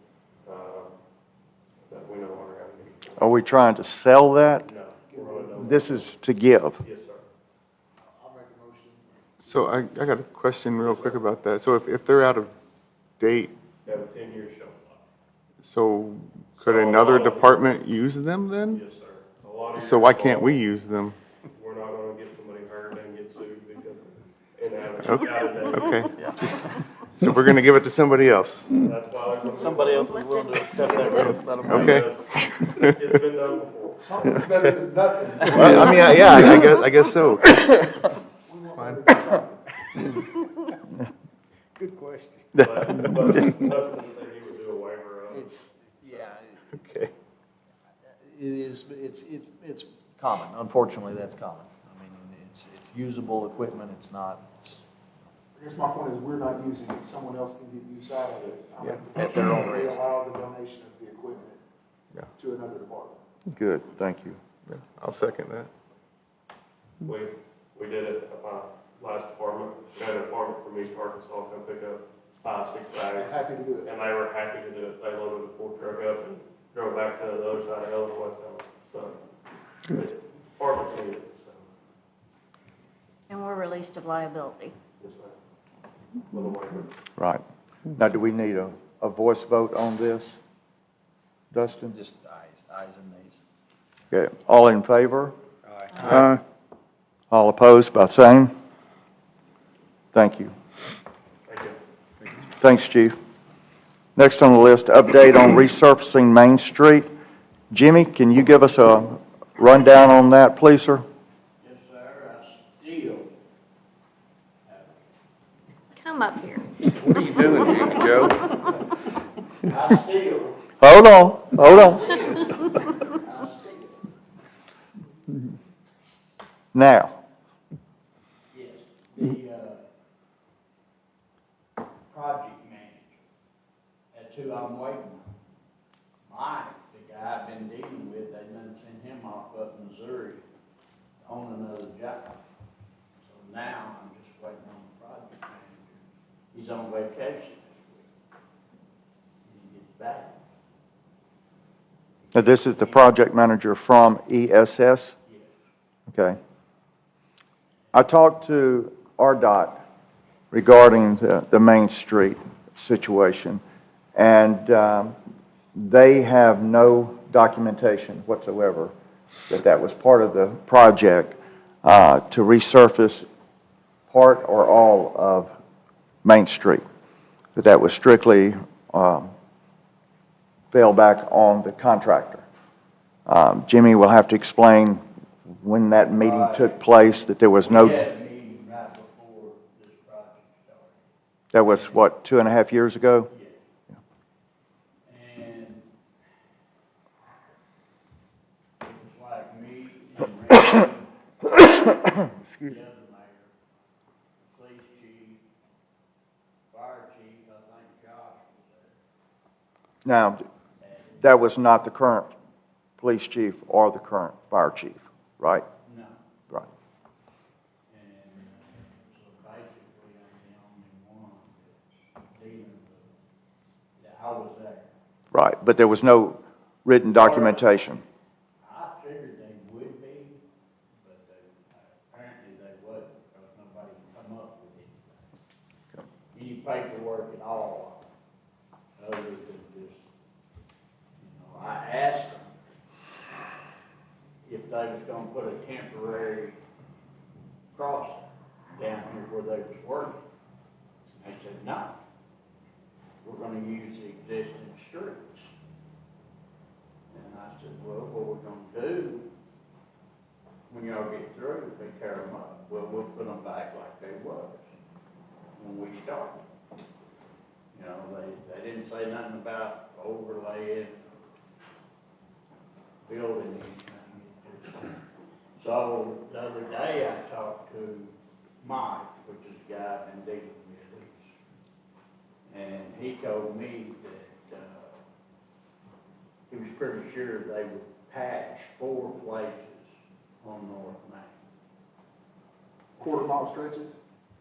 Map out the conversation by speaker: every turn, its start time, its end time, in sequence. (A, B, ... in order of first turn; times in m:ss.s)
0:00.4-0:00.9 A
0:01.9-0:03.3 A
0:03.2-0:04.7 B
0:04.6-0:06.0 A
0:05.1-0:05.6 C
0:05.6-0:06.8 B
0:06.8-0:07.2 A
0:08.0-0:09.9 C
0:09.5-0:12.5 D
0:10.8-0:11.2 A
0:13.2-0:13.6 D
0:13.9-0:15.0 A
0:15.6-0:18.8 D
0:16.6-0:17.6 A
0:18.7-0:20.7 A
0:19.8-0:21.2 D
0:21.5-0:26.2 A
0:25.0-0:28.7 D
0:28.8-0:32.3 A
0:29.6-0:31.9 E
0:30.0-0:31.3 F
0:31.2-0:32.9 D
0:32.8-0:34.1 A
0:34.0-0:36.1 C
0:35.5-0:38.1 D
0:38.5-0:39.6 C
0:38.7-0:39.2 D
0:41.8-0:42.5 E
0:42.6-0:42.8 B
0:42.6-0:45.6 A
0:46.0-0:46.4 E
0:48.3-0:54.8 E
0:55.6-1:01.6 C
0:59.2-1:00.0 E
1:02.4-1:03.2 C
1:03.5-1:04.4 B
1:04.7-1:05.7 D
1:07.0-1:19.2 A
1:13.2-1:13.9 C
1:19.9-1:21.6 A
1:23.3-1:24.8 F
1:25.0-1:25.4 A
1:26.3-1:26.9 A
1:27.9-1:30.4 B
1:31.5-1:32.0 B
1:31.9-1:33.4 E
1:34.1-1:35.4 B
1:35.7-1:36.3 E
1:36.1-1:36.4 D
1:37.3-1:38.5 B
1:40.1-1:40.5 B
1:41.5-1:41.8 A
1:42.6-1:43.2 B
1:44.2-1:47.1 B
1:47.7-1:51.0 B
1:51.6-1:53.3 G
1:54.7-1:55.1 G
1:56.0-1:56.8 F
1:57.0-1:58.3 D
1:57.1-1:58.1 E
1:59.6-2:00.6 G
2:00.8-2:02.2 B
2:02.0-2:02.4 G
2:03.1-2:04.0 G
2:06.7-2:07.1 B
2:08.5-2:09.8 G
2:12.1-2:13.2 G
2:14.1-2:15.4 G
2:16.3-2:20.4 G
2:21.2-2:22.4 G
2:23.2-2:28.1 G
2:29.4-2:30.4 G
2:32.3-2:33.0 G
2:32.3-2:35.2 B
2:36.1-2:36.4 B
2:37.9-2:39.8 B
2:40.5-2:43.6 B
2:44.2-2:45.2 B
2:45.8-2:48.9 B
2:49.5-2:53.3 B
2:54.1-2:55.5 B
2:56.2-2:56.8 B
2:57.6-2:59.3 B
3:00.7-3:02.4 B
3:03.3-3:05.0 B
3:05.6-3:08.0 B
3:06.2-3:06.8 G
3:07.6-3:11.1 G
3:11.5-3:13.3 B
3:11.7-3:12.0 G
3:13.3-3:13.6 G
3:15.1-3:15.8 G
3:18.8-3:23.5 G
3:24.4-3:25.4 G
3:26.7-3:29.0 G
3:30.0-3:30.4 B
3:30.8-3:31.4 G
3:31.2-3:32.3 B
3:33.0-3:35.7 B
3:35.9-3:36.2 G
3:37.9-3:43.1 G
3:44.0-3:44.9 G
3:45.3-3:48.0 B
3:47.1-3:47.8 G
3:48.6-3:50.4 G
3:51.0-3:55.2 G
3:56.3-3:58.0 G
3:59.0-4:00.0 G
4:01.2-4:02.6 G
4:04.4-4:06.6 G
4:07.7-4:10.2 G
4:11.2-4:12.0 G
4:13.2-4:15.5 G
4:17.1-4:19.3 G
4:20.7-4:24.7 G
4:25.6-4:26.4 G
4:27.7-4:31.2 G
4:33.0-4:35.0 G
4:35.6-4:41.3 G
4:42.5-4:45.0 G
4:46.5-4:49.9 G
4:50.4-4:51.4 G
4:53.0-4:54.0 C